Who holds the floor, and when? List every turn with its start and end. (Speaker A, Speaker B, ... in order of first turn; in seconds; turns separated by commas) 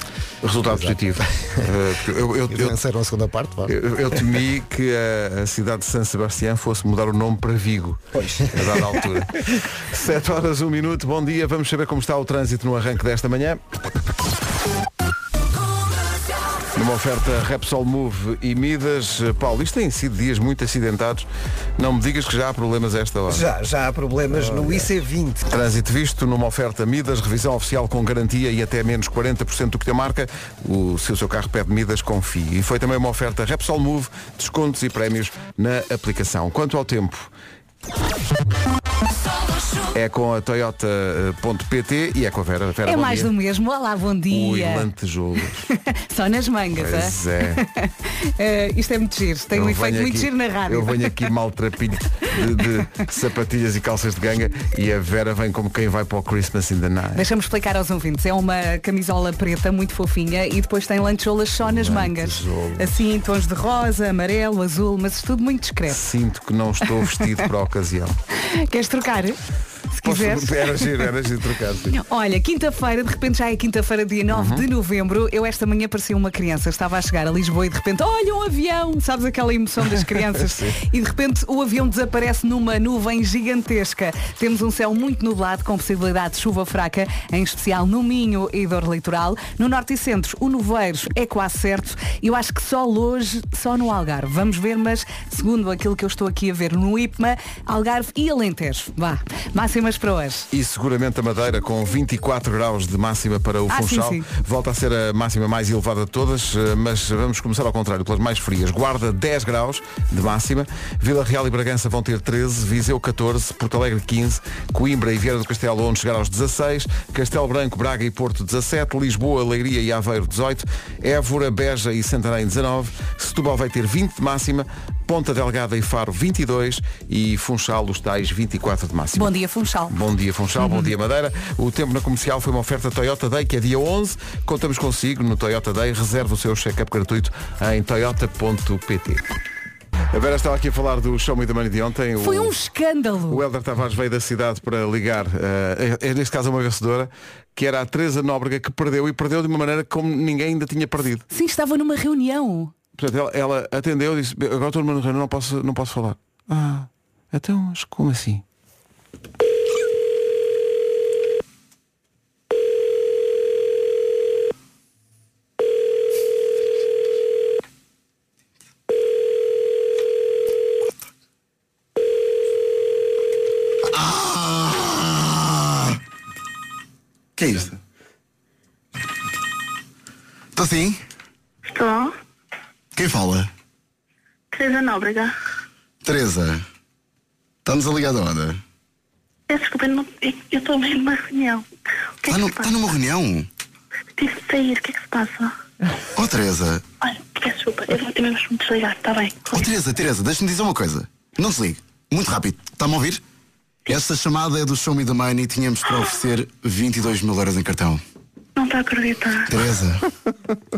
Speaker A: 0.4-2.8, Speaker B: 0.7-1.7, Speaker B: 2.5-3.8, Speaker A: 3.7-13.6, Speaker A: 16.8-23.5, Speaker C: 23.3-25.4, Speaker A: 24.3-24.9, Speaker A: 25.4-37.3, Speaker A: 39.9-43.3, Speaker D: 42.8-44.9, Speaker A: 44.3-45.7, Speaker D: 45.6-51.2, Speaker A: 46.8-47.6, Speaker A: 49.5-57.3, Speaker D: 57.1-66.0, Speaker A: 61.6-62.9, Speaker A: 65.9-68.2, Speaker D: 67.0-67.4, Speaker D: 68.4-69.4, Speaker D: 69.9-71.0, Speaker A: 70.0-72.0, Speaker D: 71.9-100.5, Speaker A: 74.3-74.7, Speaker A: 100.5-129.3, Speaker D: 103.7-104.3, Speaker D: 129.2-129.9, Speaker A: 129.9-139.2, Speaker D: 130.6-130.9, Speaker A: 140.1-142.5, Speaker D: 142.2-143.4, Speaker A: 143.3-151.3, Speaker D: 151.3-152.7, Speaker A: 153.0-158.4, Speaker E: 173.9-176.0, Speaker E: 177.4-177.8, Speaker E: 180.6-181.0, Speaker F: 181.7-182.1, Speaker E: 183.0-183.5, Speaker F: 184.5-185.3, Speaker E: 186.0-186.6, Speaker E: 187.7-188.6, Speaker F: 189.5-191.7, Speaker F: 192.2-192.8, Speaker E: 192.3-193.5, Speaker F: 194.2-195.5, Speaker E: 196.2-196.8, Speaker F: 197.0-199.7, Speaker E: 199.5-203.2, Speaker E: 203.9-208.0, Speaker F: 208.6-209.6, Speaker E: 209.5-210.0